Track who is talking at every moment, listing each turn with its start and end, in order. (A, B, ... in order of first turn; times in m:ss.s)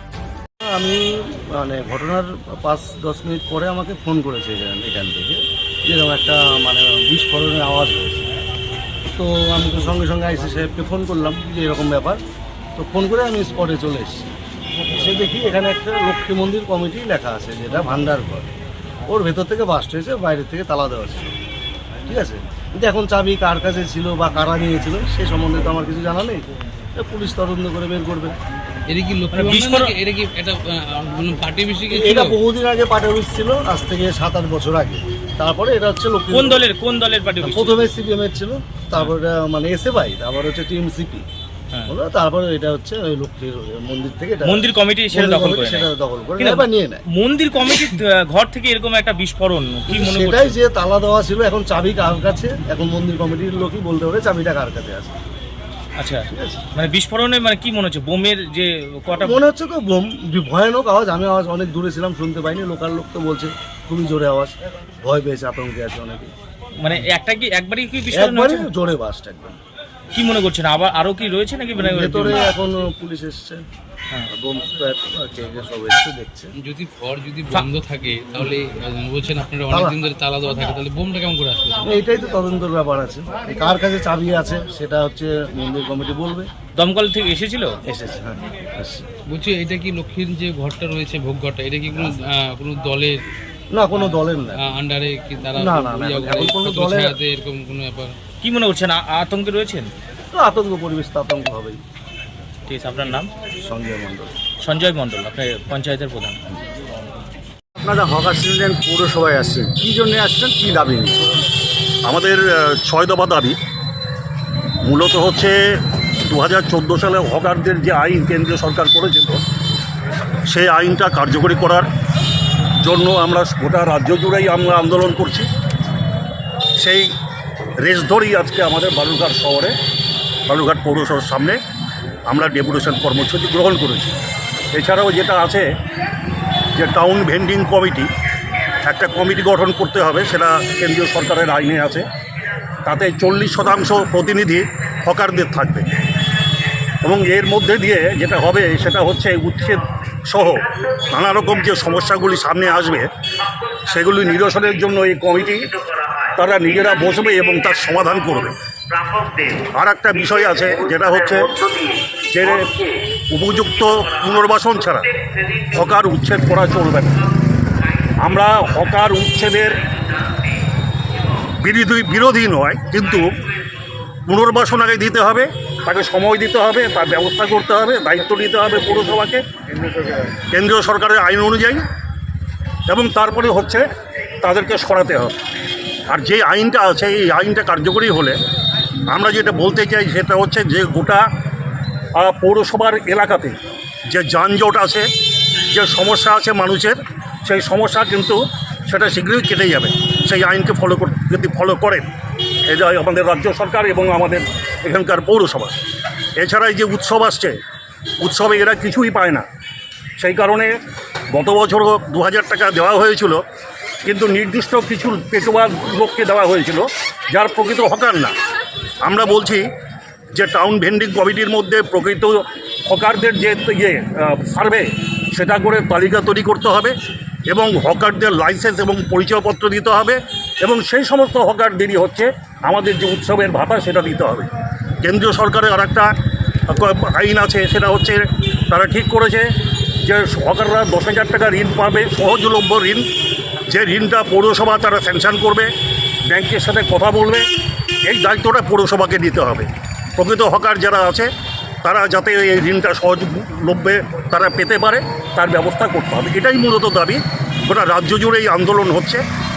0:00.7-0:08.2 A
0:09.2-0:12.2 A
0:12.8-0:14.3 A
0:14.9-0:18.5 A
0:19.1-0:21.4 A
0:22.1-0:26.4 A
0:27.0-0:28.3 A
0:28.9-0:32.4 B
0:29.3-0:29.9 C
0:31.9-0:36.7 A
0:36.3-0:37.9 C
0:37.4-0:41.2 A
0:41.9-0:47.0 A
0:44.4-0:45.9 C
0:46.4-0:50.6 C
0:49.9-0:55.2 A
0:56.0-0:59.4 C
0:56.3-0:56.6 A
0:59.2-1:06.3 A
1:06.8-1:08.7 C
1:08.1-1:09.6 A
1:10.1-1:12.5 C
1:11.8-1:13.6 A
1:14.3-1:16.5 A
1:16.6-1:21.8 B
1:19.7-1:20.0 A
1:21.8-1:26.5 A
1:26.8-1:27.8 C
1:27.8-1:29.0 A
1:29.3-1:33.3 B
1:33.7-1:34.6 A
1:34.0-1:38.2 B
1:35.6-1:37.2 A
1:38.4-1:39.9 C
1:40.3-1:41.8 A
1:42.7-1:43.3 C
1:43.6-1:44.3 A
1:44.6-1:46.4 C
1:47.8-1:51.2 D
1:49.8-1:50.6 A
1:52.1-1:53.6 E
1:54.8-1:59.4 E
2:00.5-2:01.9 E
2:02.8-2:05.5 E
2:06.8-2:07.1 E
2:07.8-2:09.8 E
2:10.5-2:11.6 E
2:12.3-2:14.2 E
2:14.7-2:15.7 E
2:16.8-2:18.1 E
2:18.8-2:22.1 E
2:22.8-2:25.9 E
2:27.0-2:33.1 E
2:33.8-2:38.6 E
2:39.4-2:45.1 E
2:45.6-2:47.3 E
2:48.2-2:49.9 E
2:51.6-2:53.3 E
2:54.3-2:59.4 E
3:00.3-3:01.8 E
3:02.9-3:03.9 E
3:04.4-3:05.4 E
3:06.1-3:08.4 E
3:09.1-3:11.2 E
3:12.2-3:13.6 E
3:14.1-3:15.1 E
3:15.7-3:22.1 E
3:22.7-3:25.7 E
3:26.4-3:27.6 E
3:28.2-3:29.4 E
3:30.2-3:30.8 E
3:31.3-3:33.4 E
3:34.0-3:38.3 E
3:39.0-3:39.6 E
3:40.3-3:46.9 E
3:47.5-3:54.5 E
3:55.0-3:56.1 E
3:56.7-3:59.5 E
4:00.0-4:03.1 E
4:03.7-4:05.7 E
4:06.3-4:07.5 E
4:08.0-4:11.3 E
4:11.8-4:19.2 E